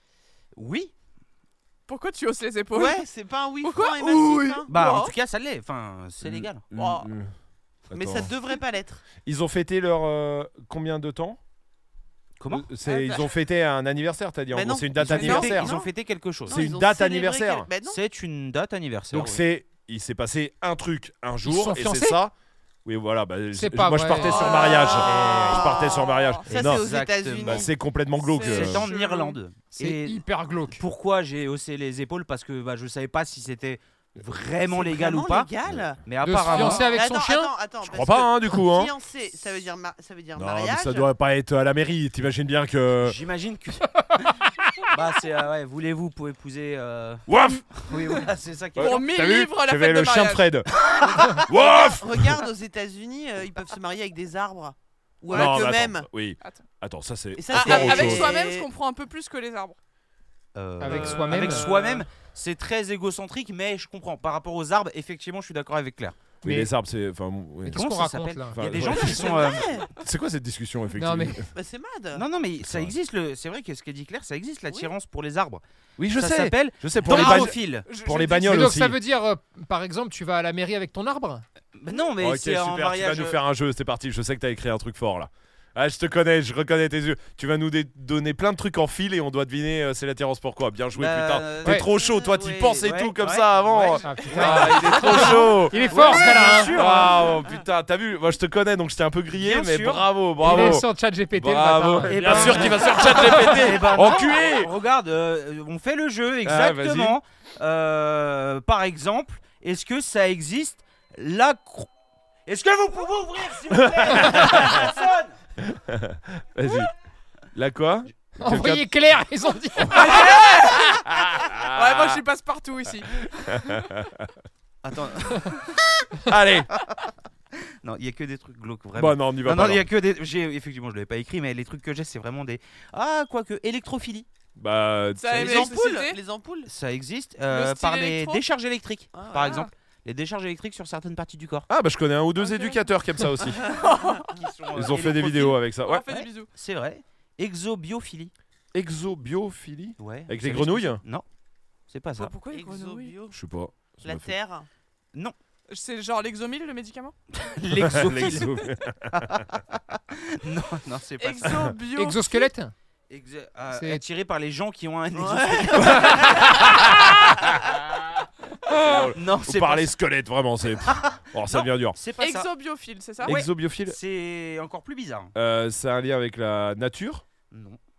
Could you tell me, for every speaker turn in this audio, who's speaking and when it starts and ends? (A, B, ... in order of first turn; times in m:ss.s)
0:00.6-0:00.9 A
0:01.9-0:03.0 B
0:02.7-0:05.0 C
0:03.6-0:05.1 B
0:04.7-0:06.7 A
0:06.2-0:07.3 D
0:06.7-0:07.1 B
0:07.9-0:08.3 D
0:07.9-0:09.0 C
0:09.2-0:11.4 D
0:12.4-0:12.7 A
0:12.5-0:15.7 D
0:12.9-0:13.2 B
0:14.5-0:15.9 C
0:15.0-0:16.6 A
0:15.2-0:15.6 B
0:16.5-0:18.0 C
0:16.5-0:17.7 D
0:17.8-0:19.4 A
0:19.1-0:22.3 D
0:21.4-0:22.2 E
0:22.8-0:26.8 D
0:23.6-0:24.4 E
0:24.2-0:27.7 C
0:24.3-0:24.9 B
0:25.0-0:25.7 A
0:26.2-0:26.4 B
0:26.5-0:27.7 A
0:27.4-0:28.8 D
0:28.2-0:29.4 B
0:28.4-0:35.5 A
0:29.8-0:30.8 E
0:34.7-0:41.1 C
0:36.0-0:37.0 A
0:36.2-0:37.5 E
0:37.8-0:38.9 D
0:40.4-0:43.2 D
0:43.0-0:44.4 A
0:44.9-0:49.1 A
0:47.3-0:47.6 D
0:48.8-0:50.7 D
0:48.8-0:50.5 B
0:51.0-0:56.1 C
0:51.4-0:52.4 D
0:55.2-0:55.7 A
0:55.3-0:58.4 D
0:57.4-0:58.7 C
0:57.5-0:59.8 B
1:00.6-1:06.2 A
1:00.8-1:01.7 E
1:06.4-1:07.9 D
1:06.4-1:06.7 E
1:07.7-1:08.6 E
1:07.7-1:09.7 A
1:08.5-1:09.5 D
1:08.8-1:09.9 C
1:10.0-1:11.5 D
1:11.0-1:11.4 E
1:11.5-1:12.2 C
1:12.1-1:15.6 A
1:12.6-1:12.9 D
1:16.0-1:19.0 D
1:16.1-1:17.9 A
1:17.1-1:18.7 B
1:18.5-1:21.4 E
1:21.8-1:23.4 A
1:22.2-1:44.7 D
1:31.0-1:31.9 A
1:31.9-1:32.8 C
1:32.8-1:33.8 A
1:33.8-1:34.6 B
1:34.0-1:36.7 E
1:34.4-1:37.2 A
1:39.4-1:40.0 A
1:40.4-1:43.6 E
1:42.1-1:51.9 A
1:46.4-1:47.2 D
1:52.5-1:55.4 A
1:53.8-1:54.8 D
1:55.6-1:56.9 D
1:57.5-1:58.9 D
1:58.4-2:00.1 E
1:59.8-2:02.2 D
1:59.9-2:01.0 B
2:01.6-2:03.7 B
2:03.5-2:04.3 D
2:04.8-2:05.6 A
2:06.3-2:06.7 D
2:07.8-2:14.3 A
2:09.0-2:09.9 D
2:14.6-2:15.8 D
2:15.2-2:16.2 B
2:15.3-2:16.7 C
2:16.7-2:21.7 A
2:17.5-2:18.4 B
2:19.1-2:19.7 C
2:21.7-2:23.6 D
2:22.4-2:22.8 B
2:23.6-2:23.9 C
2:23.7-2:24.3 B
2:24.4-2:28.3 A
2:24.7-2:26.1 D
2:25.8-2:26.5 B
2:28.7-2:31.0 D
2:30.0-2:31.2 A
2:31.9-2:32.3 A
2:32.2-2:33.2 B
2:32.5-2:33.4 C
2:33.3-2:34.3 D
2:34.0-2:34.7 C
2:35.7-2:37.2 B
2:37.3-2:38.6 A
2:37.7-2:39.4 D
2:40.3-2:41.7 A
2:41.2-2:42.5 B
2:42.0-2:42.7 E
2:43.1-2:46.5 A
2:43.7-2:44.0 E
2:45.2-2:46.7 C
2:45.9-2:47.5 D
2:48.7-2:52.0 D
2:49.1-2:49.9 A
2:51.6-2:52.5 A
2:52.2-2:53.4 B
2:53.2-2:54.0 D
2:53.2-2:55.3 A
2:55.4-2:57.2 D
2:57.5-2:57.8 A